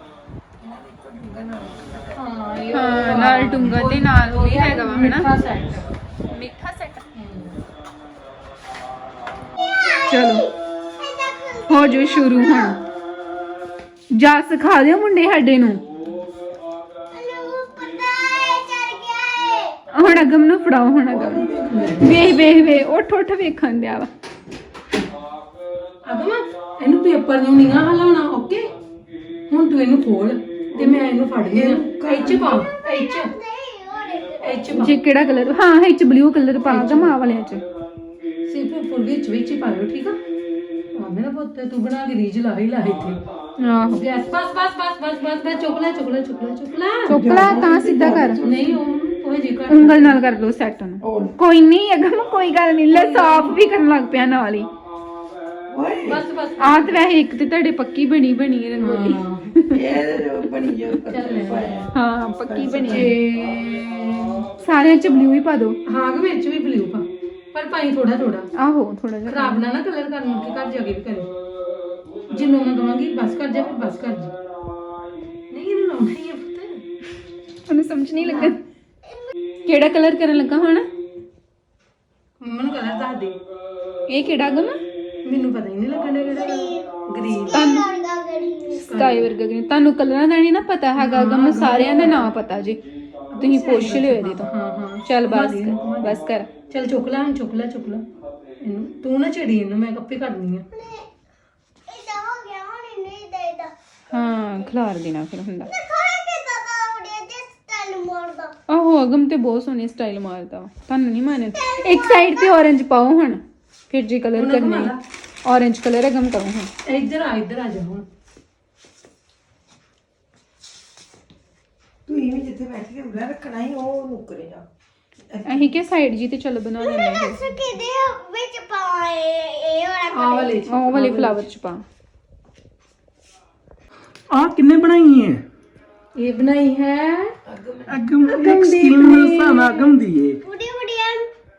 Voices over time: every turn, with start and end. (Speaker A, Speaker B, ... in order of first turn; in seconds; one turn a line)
Speaker A: 0.6-2.3
Speaker B: 2.1-5.9
Speaker C: 2.7-5.3
Speaker C: 6.3-7.0
Speaker B: 7.1-7.5
Speaker D: 9.9-10.3
Speaker C: 10.0-10.5
Speaker D: 10.9-12.8
Speaker C: 11.7-12.8
Speaker C: 14.1-15.8
Speaker D: 17.1-19.8
Speaker C: 19.9-21.5
Speaker A: 21.1-22.2
Speaker B: 21.7-22.1
Speaker C: 22.0-24.1
Speaker B: 26.0-28.7
Speaker B: 29.5-33.3
Speaker A: 30.7-32.6
Speaker D: 32.9-34.7
Speaker B: 34.4-35.0
Speaker C: 34.7-37.6
Speaker B: 36.6-37.1
Speaker B: 38.5-40.2
Speaker B: 40.9-43.2
Speaker C: 43.6-44.0
Speaker B: 43.9-47.6
Speaker C: 47.1-48.4
Speaker A: 47.1-48.8
Speaker B: 48.4-50.2
Speaker C: 49.7-54.7
Speaker A: 51.0-51.3
Speaker B: 52.9-53.6
Speaker A: 55.7-56.2
Speaker B: 56.0-57.0
Speaker C: 56.6-59.8
Speaker B: 58.8-59.5
Speaker A: 59.7-61.9
Speaker B: 61.1-61.8
Speaker C: 61.9-63.1
Speaker A: 62.4-63.2
Speaker B: 62.9-64.4
Speaker C: 64.6-65.8
Speaker B: 65.9-68.5
Speaker C: 68.5-69.6
Speaker B: 69.3-71.3
Speaker B: 72.3-74.3
Speaker B: 75.5-76.8
Speaker C: 77.7-78.6
Speaker B: 78.2-78.6
Speaker C: 79.7-80.9
Speaker B: 82.4-83.4
Speaker C: 84.1-84.8
Speaker B: 85.2-87.6
Speaker D: 86.4-86.8
Speaker C: 87.5-87.9
Speaker D: 87.5-88.8
Speaker C: 88.7-92.8
Speaker B: 88.9-89.3
Speaker B: 91.0-92.3
Speaker B: 93.3-98.0
Speaker C: 93.4-94.5
Speaker C: 95.0-96.5
Speaker B: 98.6-100.7
Speaker D: 100.7-101.0
Speaker D: 101.9-103.7
Speaker C: 104.1-105.7
Speaker D: 105.7-108.5
Speaker C: 108.7-116.7
Speaker D: 111.9-112.4
Speaker B: 114.3-115.0
Speaker B: 116.8-118.0
Speaker A: 122.1-124.6
Speaker A: 125.3-125.8
Speaker C: 125.5-127.6
Speaker D: 126.8-130.6
Speaker B: 130.1-131.4
Speaker C: 130.7-131.8
Speaker E: 134.3-135.4
Speaker B: 136.2-137.3
Speaker A: 137.4-138.1
Speaker E: 137.9-140.4
Speaker B: 138.3-139.8
Speaker D: 140.4-141.3